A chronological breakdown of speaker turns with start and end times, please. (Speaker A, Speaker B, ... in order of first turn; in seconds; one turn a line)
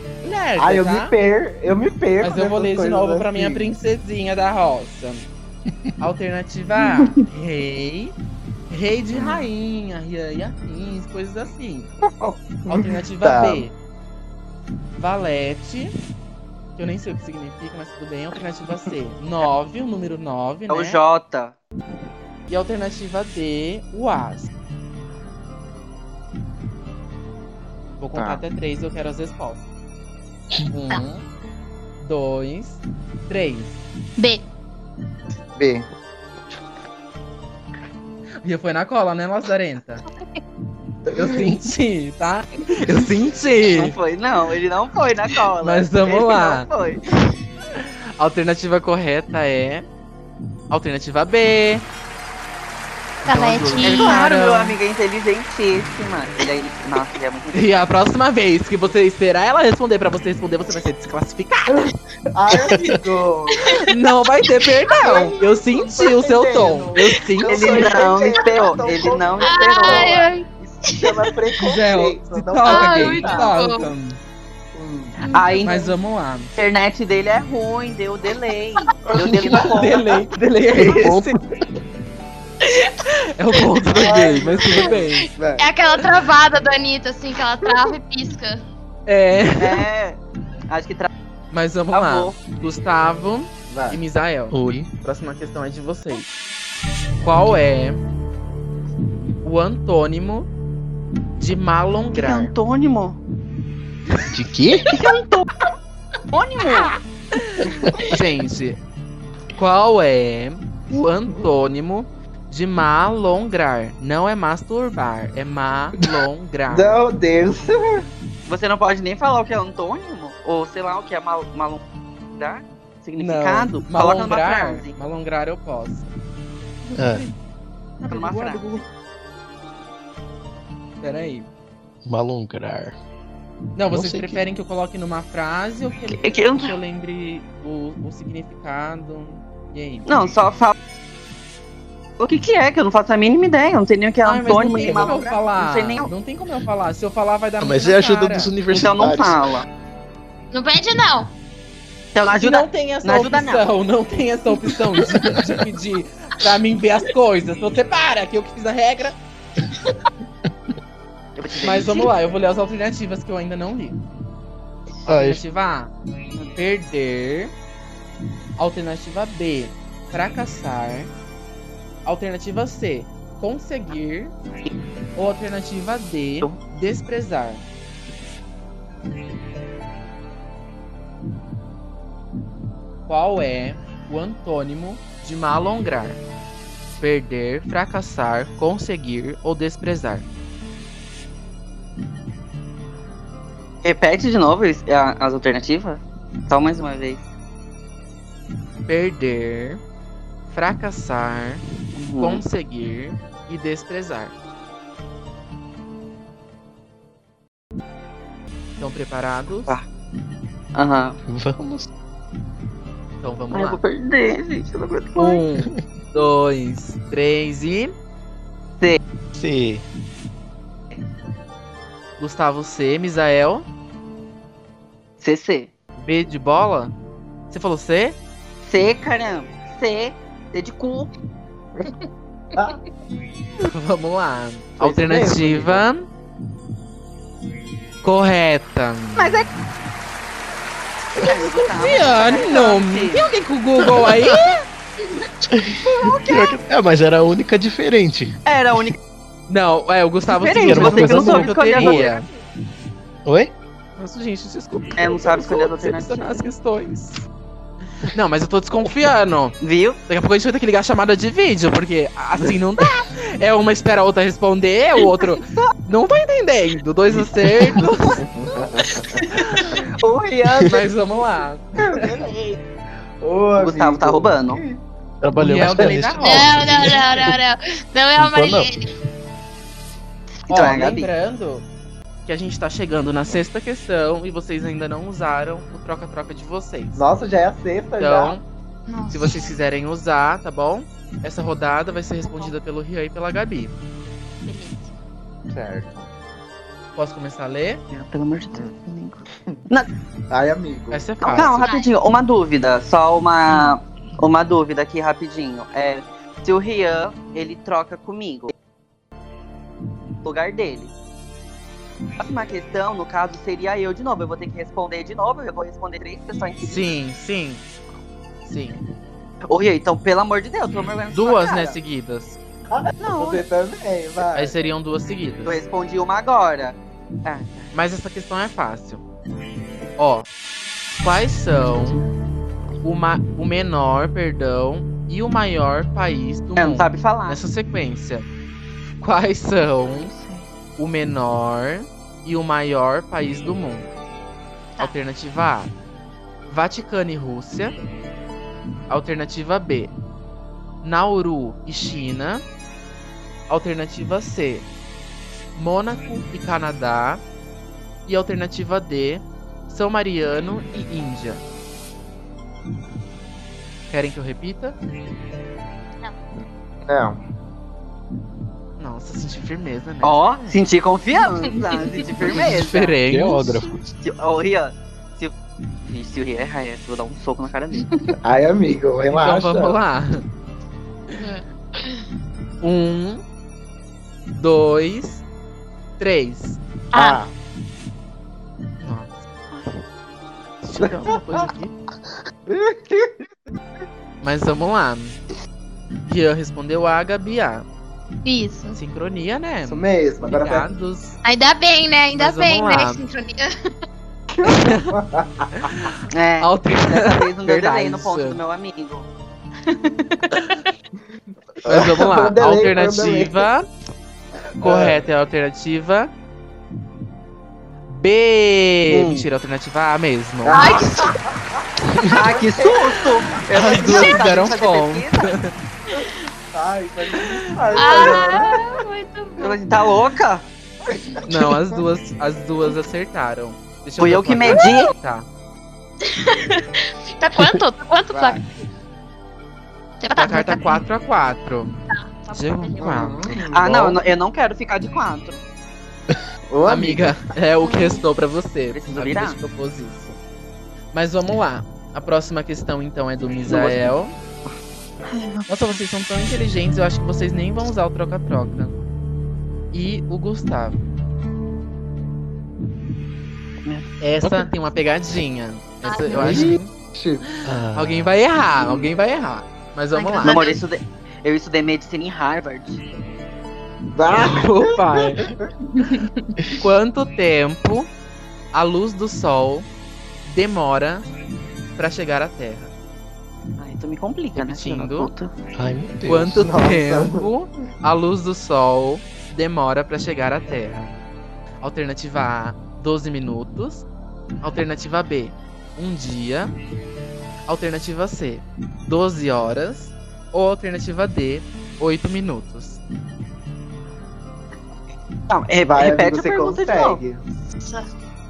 Speaker A: 0.2-1.1
Speaker B: 0.6-3.7
Speaker A: 2.2-5.3
Speaker A: 6.0-8.1
Speaker A: 8.7-11.9
Speaker B: 9.1-9.5
Speaker B: 12.2-13.7
Speaker A: 12.7-13.7
Speaker A: 15.0-15.9
Speaker A: 16.8-21.0
Speaker C: 20.7-21.6
Speaker A: 22.5-24.5
Speaker A: 28.0-29.7
Speaker B: 28.1-28.4
Speaker A: 30.7-31.2
Speaker A: 32.0-33.8
Speaker D: 34.2-34.4
Speaker B: 35.6-35.9
Speaker A: 38.4-40.0
Speaker A: 41.1-43.9
Speaker C: 43.7-47.1
Speaker A: 45.6-46.7
Speaker A: 47.7-49.9
Speaker A: 50.7-51.9
Speaker A: 53.2-54.8
Speaker D: 53.3-54.2
Speaker C: 53.8-57.7
Speaker A: 57.5-61.8
Speaker B: 61.7-63.8
Speaker A: 63.9-68.0
Speaker B: 64.9-73.6
Speaker C: 67.5-70.2
Speaker D: 69.4-71.1
Speaker A: 71.6-74.2
Speaker D: 72.7-73.9
Speaker B: 74.7-75.2
Speaker D: 75.2-75.7
Speaker C: 75.3-75.9
Speaker A: 75.6-76.5
Speaker C: 76.6-80.0
Speaker B: 79.1-79.7
Speaker A: 79.5-81.4
Speaker E: 80.8-81.4
Speaker D: 82.6-82.9
Speaker A: 83.3-85.3
Speaker B: 83.9-85.8
Speaker D: 85.6-88.6
Speaker A: 89.1-89.8
Speaker C: 89.6-91.1
Speaker A: 91.5-96.3
Speaker C: 91.9-92.4
Speaker B: 93.7-94.0
Speaker E: 94.5-94.9
Speaker A: 97.2-98.0
Speaker A: 99.4-100.5
Speaker A: 101.4-102.5
Speaker C: 102.1-103.2
Speaker E: 104.3-104.9
Speaker C: 104.9-105.5
Speaker C: 106.3-106.9
Speaker A: 107.6-108.8
Speaker A: 109.5-117.0
Speaker B: 116.7-118.0
Speaker C: 118.5-121.8
Speaker C: 122.3-125.0
Speaker A: 123.2-126.1
Speaker E: 127.0-127.3
Speaker A: 128.0-128.8
Speaker C: 128.1-128.9
Speaker A: 131.0-131.5
Speaker E: 132.1-133.0
Speaker A: 133.8-140.1
Speaker E: 133.9-134.4
Speaker C: 136.1-136.8
Speaker C: 140.1-140.7
Speaker C: 142.2-146.1
Speaker A: 144.2-148.5
Speaker E: 147.6-149.4
Speaker C: 148.7-149.7
Speaker D: 150.5-151.3
Speaker C: 152.2-153.7
Speaker A: 152.3-159.2
Speaker C: 161.4-162.1
Speaker A: 161.6-164.0
Speaker A: 165.1-165.9
Speaker E: 165.1-165.4
Speaker A: 166.6-167.5
Speaker A: 168.6-171.1
Speaker A: 172.1-174.3
Speaker A: 175.2-177.6
Speaker A: 183.1-186.2
Speaker A: 187.0-190.2
Speaker C: 193.8-197.3
Speaker A: 198.9-199.8
Speaker A: 200.5-201.6
Speaker C: 201.9-202.4
Speaker A: 202.2-204.3
Speaker A: 208.8-209.8
Speaker C: 210.8-211.2
Speaker E: 211.3-211.9
Speaker A: 213.2-213.8
Speaker C: 213.5-215.4
Speaker A: 215.2-217.9
Speaker E: 219.3-219.8
Speaker A: 222.2-223.7
Speaker C: 225.2-225.7
Speaker A: 226.0-226.9
Speaker A: 227.5-228.2
Speaker C: 228.6-231.1
Speaker B: 232.5-232.8
Speaker A: 233.6-236.1
Speaker B: 234.8-235.9
Speaker A: 238.0-239.4
Speaker C: 239.2-239.5
Speaker C: 241.2-243.3
Speaker A: 241.7-244.6
Speaker E: 244.0-244.4
Speaker E: 245.5-248.3
Speaker C: 245.8-246.6
Speaker C: 248.5-249.0
Speaker A: 249.5-252.3
Speaker C: 250.3-252.3
Speaker E: 250.6-252.1
Speaker E: 253.3-253.5
Speaker A: 254.0-257.3
Speaker C: 255.0-256.5
Speaker A: 258.1-259.6
Speaker C: 259.6-260.0
Speaker A: 260.1-268.2
Speaker B: 268.4-269.2
Speaker A: 269.3-269.8
Speaker C: 269.4-270.8
Speaker A: 270.7-272.0
Speaker B: 271.8-272.3
Speaker B: 273.2-274.8
Speaker C: 273.6-274.6
Speaker E: 275.2-277.1
Speaker A: 275.4-277.1
Speaker D: 276.2-278.9
Speaker E: 278.2-278.7
Speaker C: 280.5-281.1
Speaker A: 280.5-281.6
Speaker A: 282.3-287.1
Speaker B: 286.9-288.4
Speaker A: 288.0-288.4
Speaker D: 288.9-289.4
Speaker A: 289.1-293.7
Speaker D: 292.2-292.5
Speaker D: 294.4-294.9
Speaker B: 295.5-296.1
Speaker A: 297.0-297.8
Speaker C: 297.9-299.9
Speaker B: 300.3-301.1
Speaker A: 300.9-301.7
Speaker C: 301.2-308.5
Speaker D: 301.4-301.9
Speaker C: 310.2-310.9
Speaker C: 312.2-316.9
Speaker A: 316.6-317.6
Speaker A: 318.4-318.8
Speaker C: 319.5-321.8
Speaker A: 321.1-322.4
Speaker B: 322.7-324.6
Speaker C: 323.0-323.4
Speaker A: 324.4-325.6
Speaker C: 325.4-327.7
Speaker A: 327.7-329.0
Speaker A: 330.0-330.3
Speaker A: 331.0-332.0
Speaker A: 332.8-338.3
Speaker C: 336.6-337.4
Speaker A: 339.0-340.1
Speaker C: 339.9-340.4
Speaker A: 340.8-343.9
Speaker A: 344.8-345.7
Speaker A: 346.5-347.8
Speaker A: 348.9-349.9
Speaker A: 350.8-352.4
Speaker A: 353.5-354.7
Speaker A: 355.6-357.2
Speaker A: 358.1-361.4
Speaker A: 363.9-364.8
Speaker B: 366.4-367.2
Speaker A: 368.8-370.6
Speaker C: 370.0-373.0
Speaker A: 372.3-373.6
Speaker E: 373.1-373.8
Speaker C: 374.0-375.3
Speaker C: 375.9-377.9
Speaker B: 378.2-379.8
Speaker A: 379.1-380.2
Speaker D: 381.2-382.0
Speaker A: 382.6-383.2
Speaker A: 384.4-385.2
Speaker A: 386.0-386.6
Speaker D: 386.9-387.2
Speaker B: 386.9-387.3
Speaker A: 388.8-389.8
Speaker A: 390.6-391.8
Speaker B: 390.8-391.5
Speaker B: 392.5-393.3
Speaker A: 394.2-395.2
Speaker A: 396.1-397.6
Speaker D: 398.2-398.8
Speaker A: 398.7-401.2
Speaker B: 399.6-400.7
Speaker D: 401.2-403.5
Speaker A: 402.2-403.0
Speaker B: 404.3-405.9
Speaker A: 404.4-404.9
Speaker A: 405.6-408.4
Speaker C: 406.1-409.1
Speaker B: 411.6-413.5
Speaker A: 411.7-413.6
Speaker B: 414.6-415.1
Speaker A: 414.6-416.1
Speaker A: 417.9-420.8
Speaker C: 418.9-419.3
Speaker B: 420.4-423.1
Speaker D: 420.5-421.2
Speaker C: 422.1-425.4
Speaker A: 423.5-425.5
Speaker D: 423.8-424.3
Speaker B: 426.5-428.8
Speaker D: 427.7-429.6
Speaker C: 429.4-430.5
Speaker B: 430.9-431.8
Speaker A: 431.3-435.3
Speaker C: 434.0-434.9
Speaker D: 434.5-434.8
Speaker D: 436.1-438.5
Speaker B: 438.1-438.4
Speaker D: 440.0-440.8
Speaker A: 440.1-443.2
Speaker D: 441.9-443.1
Speaker B: 442.8-444.0
Speaker C: 443.5-445.4
Speaker B: 446.5-447.2
Speaker A: 446.6-450.2
Speaker D: 447.6-448.0
Speaker C: 448.7-449.4
Speaker A: 450.9-454.1
Speaker C: 453.5-453.9
Speaker C: 455.1-455.8
Speaker A: 455.5-458.8
Speaker A: 459.7-460.8
Speaker C: 463.6-464.3
Speaker A: 464.0-466.7
Speaker D: 465.9-466.3
Speaker B: 466.1-467.3
Speaker E: 466.2-466.5
Speaker E: 467.4-468.2
Speaker A: 467.7-470.4
Speaker D: 469.9-470.6
Speaker C: 470.2-472.8
Speaker B: 473.9-475.4
Speaker A: 474.1-475.2
Speaker D: 475.8-476.1
Speaker A: 476.6-477.9
Speaker A: 478.5-479.7
Speaker A: 480.2-481.1
Speaker A: 481.8-482.7
Speaker C: 483.6-485.3
Speaker A: 484.4-485.1
Speaker E: 485.6-486.4
Speaker A: 486.1-490.9
Speaker B: 486.4-487.3
Speaker A: 491.6-493.9
Speaker A: 494.4-496.5
Speaker A: 497.5-502.8
Speaker C: 505.3-507.0
Speaker B: 505.7-507.2
Speaker D: 507.6-507.9